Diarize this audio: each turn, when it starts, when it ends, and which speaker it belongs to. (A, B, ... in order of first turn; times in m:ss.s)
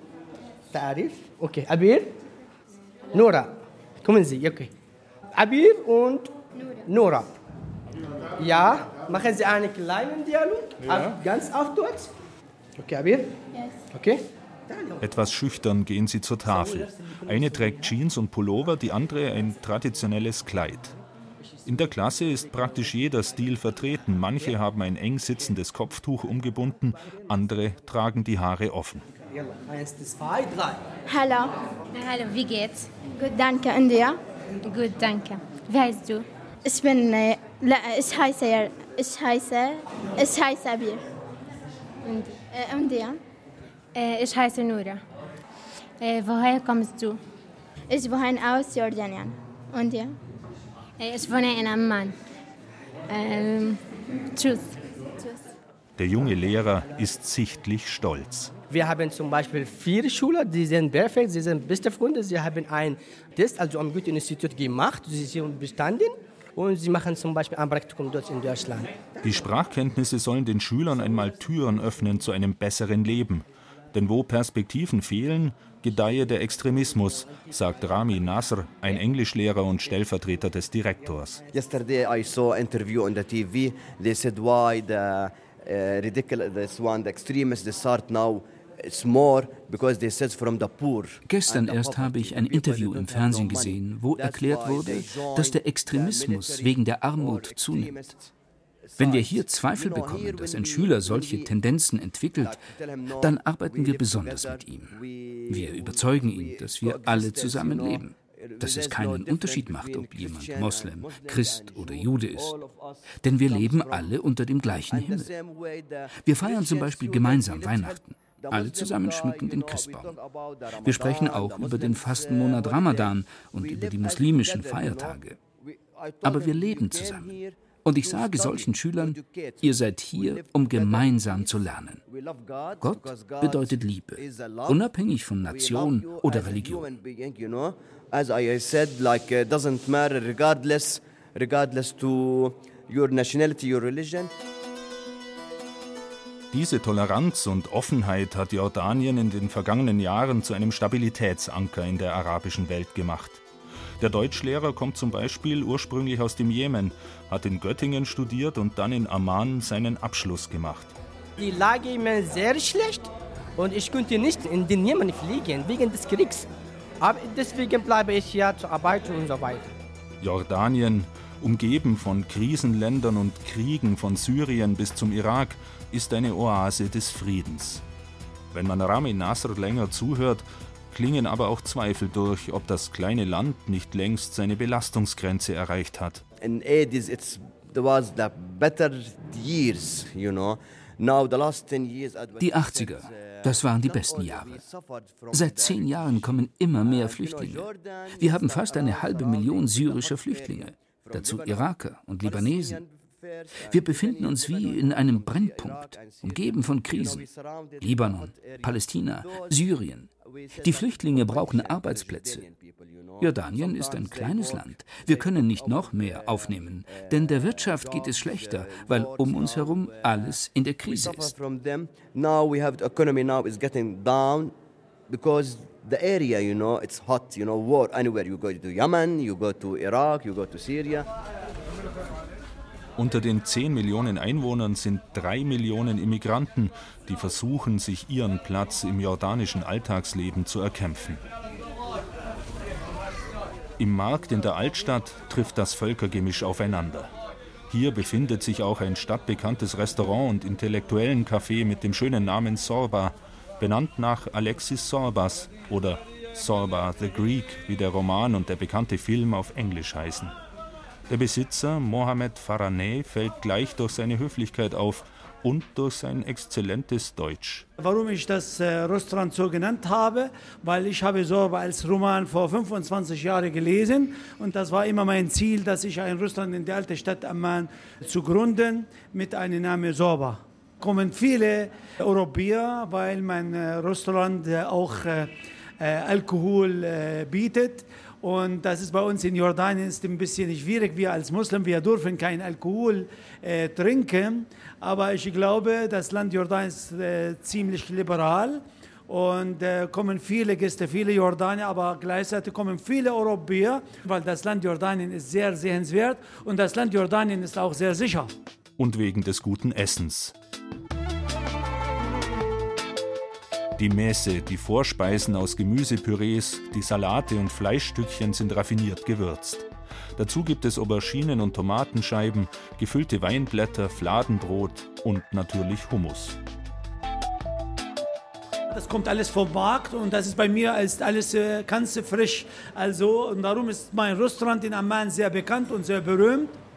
0:00.7-0:02.1 A
0:03.1-0:04.7 A
0:05.3-0:06.3 A
0:06.9-0:07.4 A
0:08.4-0:12.1 A
0:12.8-0:13.3 A
0:13.9-0:14.9 A
0:15.0-0:21.0 B
0:21.7-0:29.0 B
0:29.4-0:30.8 A
0:31.1-0:31.5 C
0:31.9-0:32.9 D
0:33.2-0:34.2 C
0:34.6-0:36.3 D
0:36.6-0:41.0 C
0:42.0-0:42.4 D
0:42.5-0:43.2 C
0:44.0-0:45.0 D
0:46.0-0:47.2 D
0:47.9-0:50.2 C
0:51.0-0:52.2 D
0:53.1-0:53.8 D
0:54.3-0:54.8 D
0:56.0-0:58.5 B
0:58.7-1:09.2 A
1:09.2-1:21.4 B
1:21.5-1:38.3 E
1:31.3-1:38.1 F
1:38.9-1:41.6 E
1:39.0-1:42.6 F
1:42.4-1:54.2 E
1:43.2-1:52.6 F
1:53.1-1:55.3 F
1:54.9-2:14.9 E
1:56.2-2:00.2 F
2:00.8-2:05.4 F
2:06.2-2:12.0 F
2:12.8-2:16.9 F
2:15.5-2:24.3 E
2:26.5-2:33.4 B
2:34.0-2:41.0 B
2:41.4-2:46.5 A
2:47.0-2:49.8 A
2:50.2-2:57.8 B
2:58.5-3:06.2 B
3:06.4-3:29.6 E
3:12.4-3:14.6 F
3:15.3-3:22.8 F
3:23.6-3:27.3 F
3:27.8-3:32.4 F
3:30.2-3:44.6 E
3:33.2-3:41.3 F
3:45.1-3:51.1 E
3:53.0-4:01.2 B
4:03.8-4:07.1 B
4:07.7-4:20.3 B
4:21.1-4:27.7 B
4:27.8-5:08.3 G
5:08.8-5:10.3 B
5:13.8-5:26.4 B
5:28.7-5:36.6 G